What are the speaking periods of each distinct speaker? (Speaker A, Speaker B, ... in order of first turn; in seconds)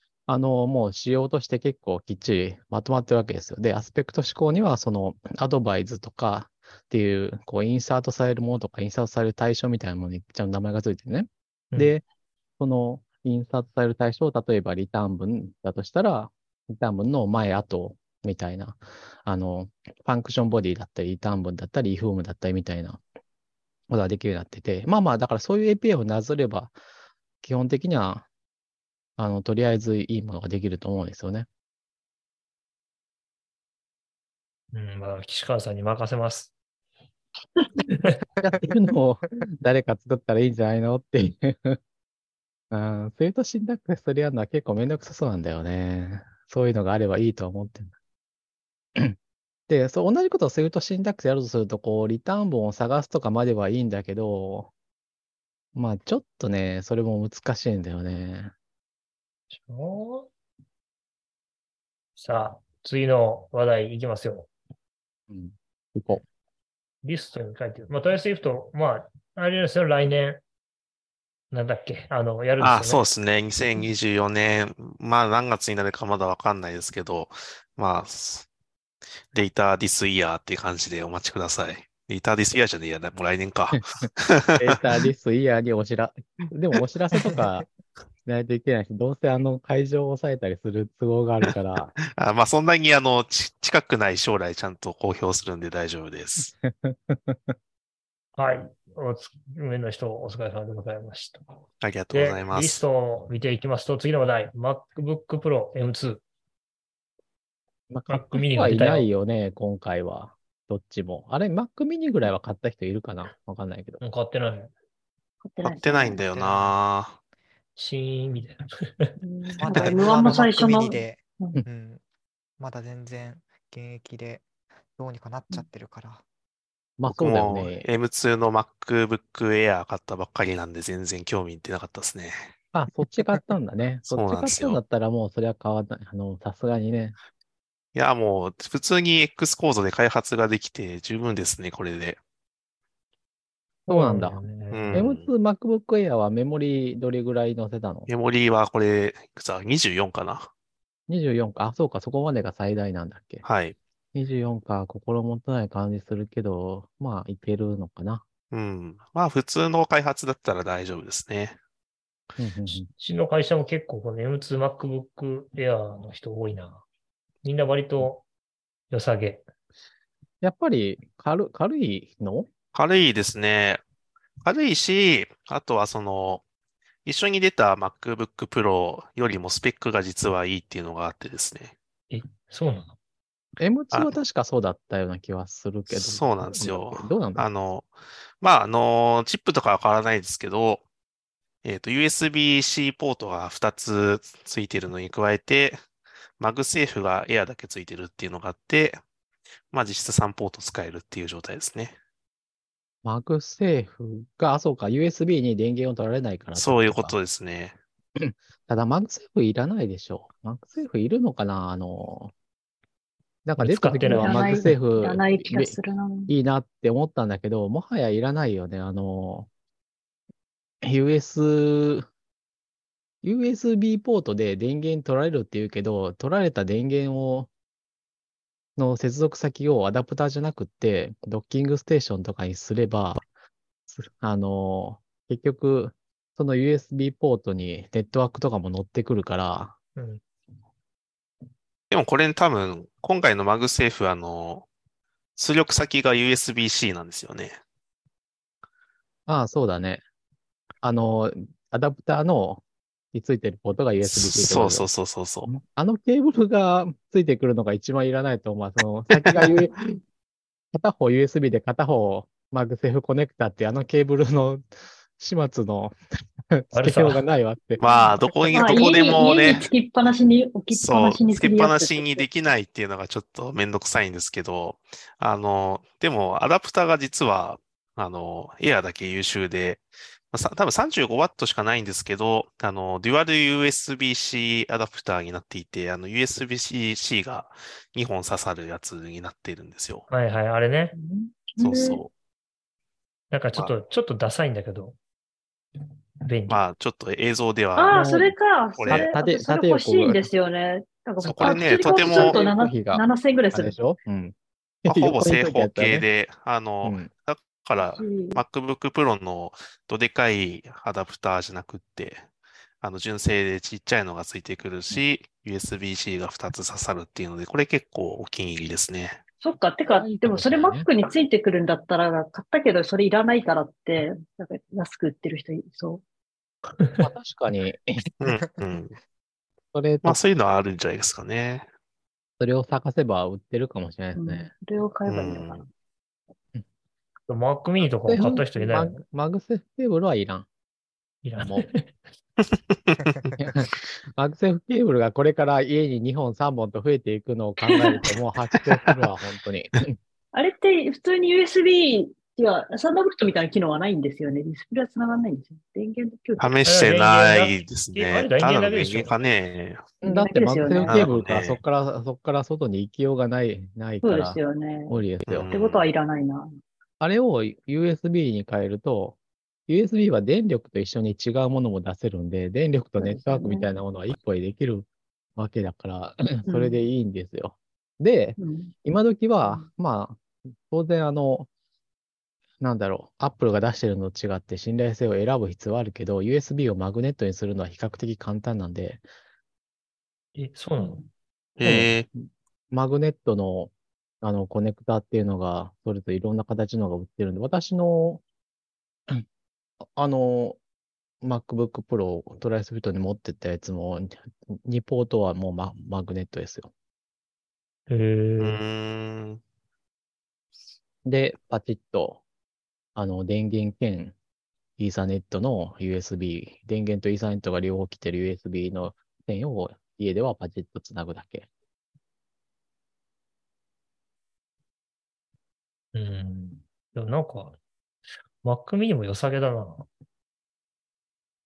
Speaker A: 0.3-12.0, 12.6-23.0, 23.9-26.7, 27.4-28.3, 29.2-31.5, 38.4-41.8, 42.7-47.9, 49.7-54.7, 55.7-58.5, 65.3-66.2, 83.7-84.0, 84.6-87.7, 88.2-91.9, 96.4-97.5, 107.9-114.0, 127.0-127.9, 132.7-137.2, 143.9-144.4, 144.9-148.1, 151.1-153.4, 154.1-158.2, 162.4-162.9, 170.4-172.5, 183.6-187.4, 203.0-207.1, 208.2-212.3, 213.4-215.7, 216.3-219.5, 220.8-222.1, 223.2-227.5, 228.8-233.2, 233.9-239.8, 249.3-250.0, 250.8-254.9, 255.4-259.8, 260.7-265.9, 266.5-267.8, 298.9-300.3, 301.2-306.1, 306.8-307.1, 319.8-320.9, 327.0-328.0, 329.7-330.2, 332.4-334.5, 338.1-340.5, 343.4-349.9, 360.0-365.5, 367.0-369.2, 369.7-381.5, 382.6-389.0, 391.6-392.1, 392.7-398.2, 399.9-400.6, 401.2-406.7, 411.0-412.2, 412.9-414.1, 414.8-421.5
Speaker B: 34.7-36.5, 37.9-38.2, 59.5-60.3, 62.1-64.5, 67.0-70.4, 71.5-73.0, 98.3-101.5, 102.1-106.2, 108.1-109.1, 114.0-114.7, 116.4-116.7, 117.8-119.1, 143.8-145.0, 162.7-166.8, 167.4-168.2, 168.9-169.4, 182.1-182.9, 213.6-214.8, 239.9-240.2, 266.7-267.2, 290.1-290.9, 293.3-295.0, 296.2-296.6, 326.8-327.0, 337.3-339.0, 341.2-341.9, 356.6-359.1, 390.3-391.1, 407.9-408.6, 425.9-427.6, 428.4-429.9
Speaker C: 72.6-78.5, 79.3-84.8, 92.1-96.5, 101.8-102.8, 115.6-117.2, 127.1-132.5, 134.1-134.8, 137.9-142.2, 144.7-145.3, 148.1-150.5, 153.4-153.8, 158.5-161.6, 172.7-173.8, 174.4-176.4, 177.0-181.7, 185.9-187.9, 188.4-190.8, 191.6-195.8, 196.4-199.0, 199.7-201.9, 206.5-207.8, 241.9-244.7, 245.3-247.6, 254.0-255.5, 259.1-259.6, 267.8-269.7, 270.7-290.1, 291.6-292.1, 296.5-298.2, 298.8-299.1, 301.2-302.4, 304.9-312.2, 312.8-319.2, 328.2-328.9, 330.0-331.6, 335.1-335.7, 342.7-343.2, 356.4-359.9, 360.8-361.6, 365.3-365.9, 391.6-392.1, 408.4-409.4
Speaker D: 87.3-87.6, 119.6-122.0, 122.6-124.4, 125.0-126.2
Speaker E: 115.4-116.2, 119.2-121.6, 214.0-216.3, 268.5-272.2, 290.9-292.0, 297.8-303.7, 307.8-308.4, 319.4-326.0, 334.1-335.6, 347.6-348.1, 350.3-356.6, 360.0-361.1, 364.0-364.9, 365.5-366.5, 373.0-373.7, 376.5-376.8, 378.4-378.7